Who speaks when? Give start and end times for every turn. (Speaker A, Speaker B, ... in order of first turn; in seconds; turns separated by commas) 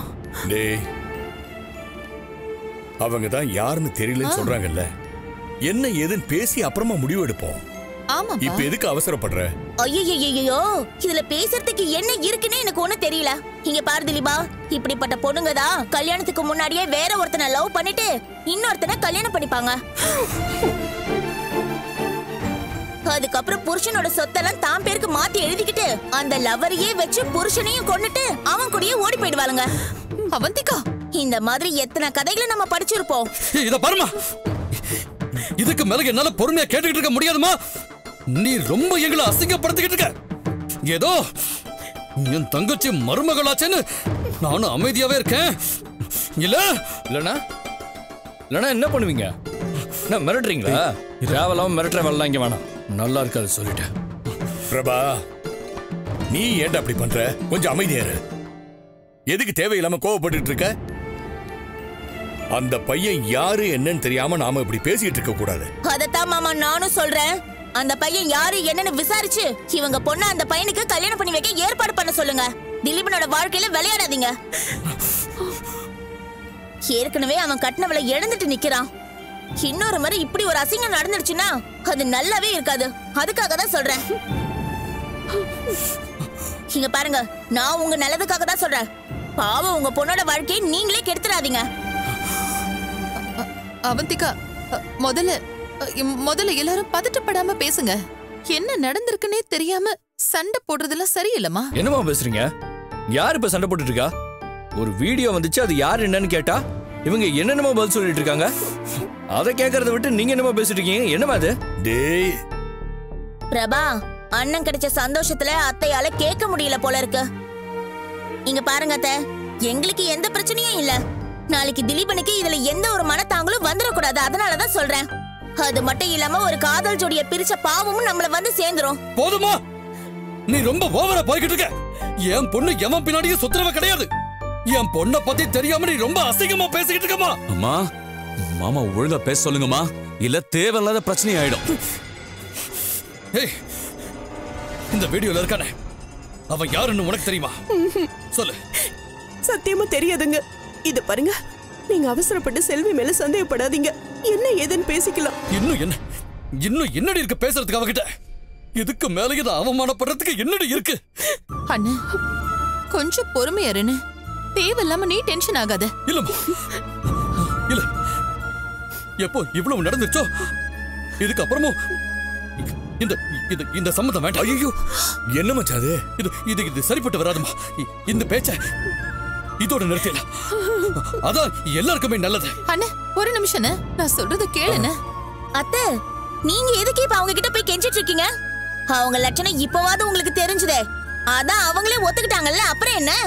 Speaker A: 0.4-0.9, Speaker A: 3.0-4.9, Speaker B: 4.2-4.5, Speaker A: 5.7-7.6, Speaker B: 8.1-8.7, Speaker A: 8.4-9.5, Speaker C: 9.8-19.8, Speaker C: 23.1-29.7, Speaker B: 30.3-30.8, Speaker C: 31.2-33.3, Speaker D: 33.5-34.2, Speaker D: 35.6-37.6, Speaker D: 38.4-40.1, Speaker D: 40.9-41.2, Speaker D: 42.2-43.8, Speaker D: 44.4-45.5, Speaker D: 46.4-46.7, Speaker E: 47.1-47.4, Speaker E: 48.5-49.3, Speaker E: 50.1-53.9, Speaker A: 54.7-55.2, Speaker A: 56.3-58.2, Speaker A: 59.3-60.7, Speaker A: 62.5-65.7, Speaker C: 65.9-74.3, Speaker C: 76.9-78.9, Speaker C: 79.6-84.0, Speaker C: 86.7-88.9, Speaker C: 89.4-91.7, Speaker B: 93.4-98.0, Speaker B: 98.5-101.7, Speaker E: 101.8-102.5, Speaker E: 103.1-104.1, Speaker E: 104.8-108.5, Speaker E: 109.3-111.5, Speaker A: 111.8-112.3, Speaker C: 113.5-117.2, Speaker C: 118.5-119.2, Speaker C: 119.7-121.0, Speaker C: 121.5-125.1, Speaker C: 125.6-129.0, Speaker D: 129.2-129.6, Speaker D: 130.5-131.7, Speaker D: 132.3-134.1, Speaker D: 134.7-137.4, Speaker F: 137.5-137.9, Speaker F: 138.4-141.7, Speaker D: 144.9-145.7, Speaker D: 146.5-147.6, Speaker G: 147.8-148.1, Speaker G: 149.5-151.4, Speaker G: 151.9-155.3, Speaker D: 155.5-156.0, Speaker D: 156.6-158.1, Speaker D: 158.8-161.0, Speaker B: 161.7-162.0, Speaker B: 162.9-164.0, Speaker B: 164.6-165.9, Speaker D: 166.1-166.5, Speaker D: 169.2-170.3, Speaker D: 171.2-171.8, Speaker D: 172.6-174.6, Speaker A: 174.4-174.8, Speaker A: 175.4-176.0, Speaker D: 176.2-178.6, Speaker D: 179.6-180.2, Speaker D: 180.9-182.5, Speaker B: 182.7-185.0, Speaker C: 185.6-185.8, Speaker C: 186.5-188.3, Speaker C: 188.9-190.8, Speaker C: 191.3-193.2